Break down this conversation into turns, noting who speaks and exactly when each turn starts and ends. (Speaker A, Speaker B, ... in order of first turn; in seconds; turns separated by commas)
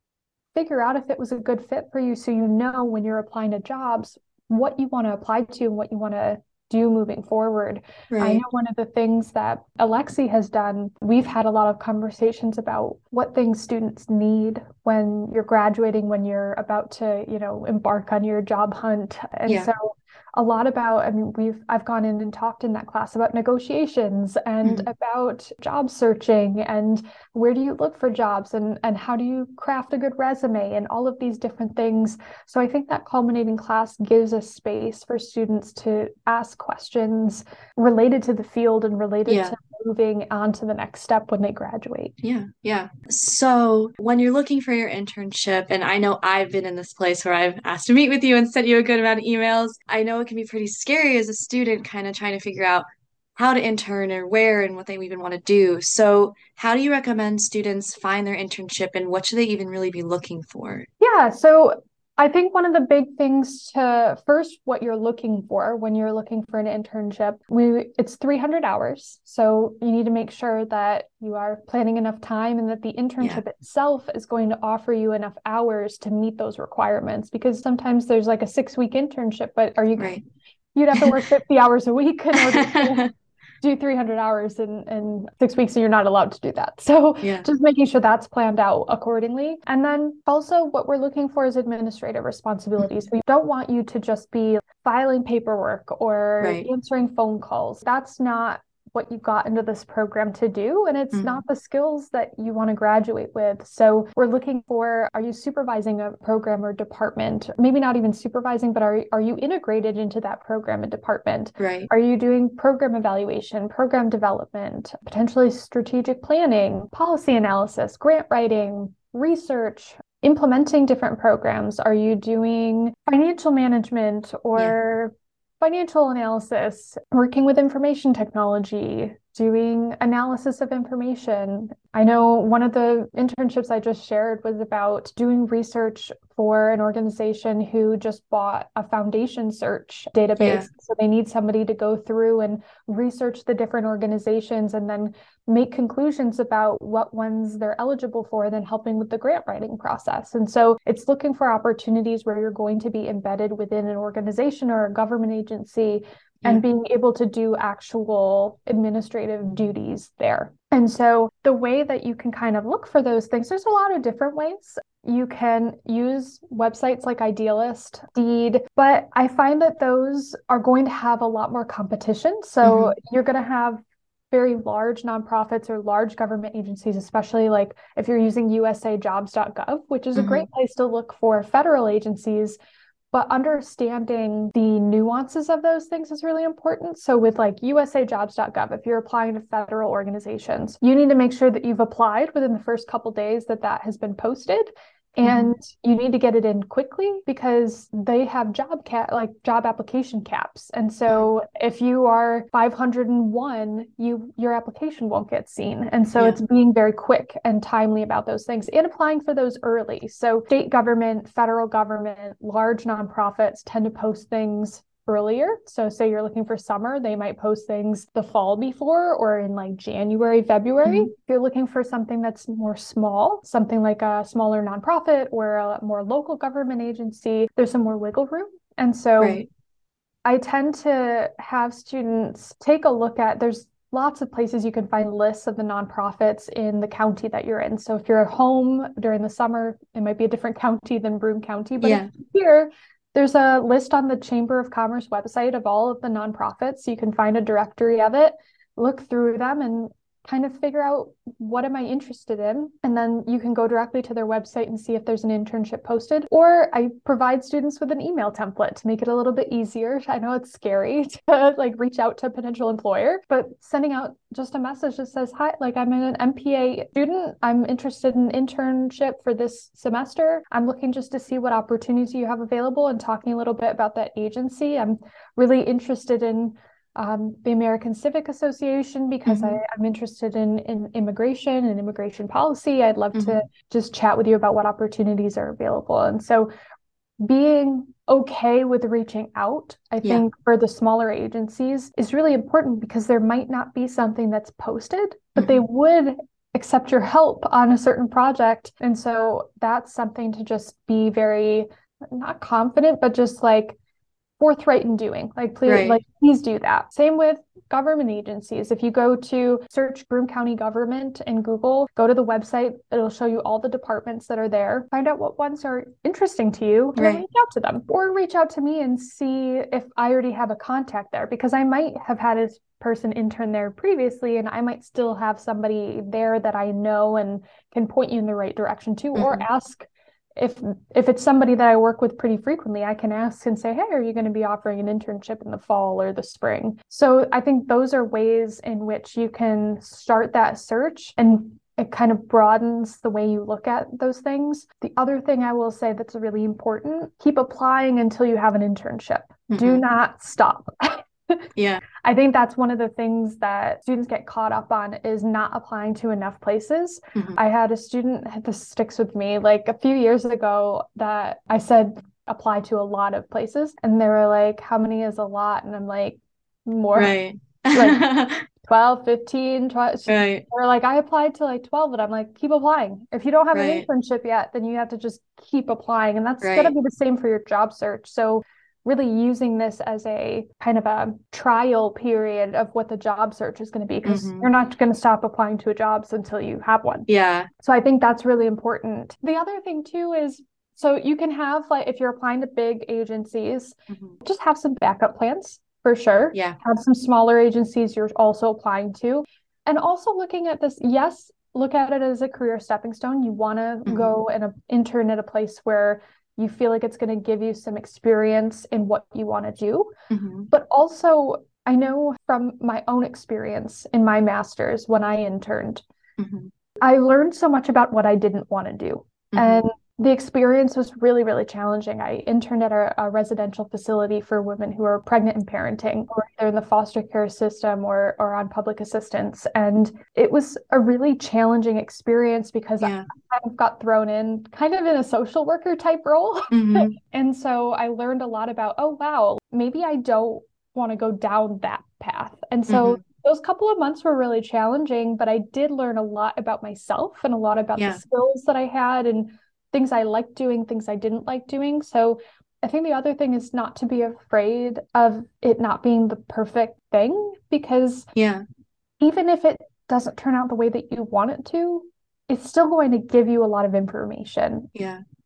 Speaker A: 0.6-42.1, Speaker B: 8.1-8.4, Speaker B: 24.6-24.9, Speaker B: 39.3-39.6, Speaker B: 42.2-60.9, Speaker A: 61.0-80.2, Speaker B: 80.0-80.2, Speaker A: 80.8-83.1, Speaker B: 82.4-83.1, Speaker A: 83.6-182.6, Speaker B: 96.4-96.7, Speaker B: 101.1-101.4, Speaker B: 111.6-111.9, Speaker B: 140.4-140.7, Speaker B: 172.6-172.9, Speaker B: 180.2-180.5, Speaker A: 183.1-229.4, Speaker B: 195.2-195.6, Speaker B: 220.8-221.1, Speaker B: 229.2-229.5, Speaker A: 230.2-286.5, Speaker B: 241.8-242.1, Speaker B: 279.3-279.6, Speaker A: 287.2-303.8, Speaker B: 295.4-295.6, Speaker A: 304.4-351.5, Speaker B: 305.7-306.0, Speaker B: 317.0-317.2, Speaker B: 329.1-329.4, Speaker B: 349.5-349.8, Speaker B: 351.6-351.8, Speaker A: 352.0-367.2, Speaker B: 357.1-357.4, Speaker B: 366.9-368.4, Speaker A: 367.7-368.1, Speaker A: 368.6-387.1, Speaker B: 370.1-370.4, Speaker B: 373.5-373.9, Speaker B: 376.4-376.8, Speaker B: 384.1-384.5, Speaker B: 387.1-387.5, Speaker A: 387.6-409.9, Speaker B: 393.9-394.2, Speaker B: 396.3-396.6, Speaker B: 403.9-404.2, Speaker B: 410.1-410.5, Speaker A: 410.5-415.8, Speaker B: 416.2-416.5, Speaker A: 416.8-458.1, Speaker B: 419.3-419.6, Speaker B: 432.8-433.1, Speaker B: 436.5-437.0, Speaker B: 442.7-443.0, Speaker B: 458.1-458.4, Speaker A: 459.0-464.7, Speaker B: 464.8-465.0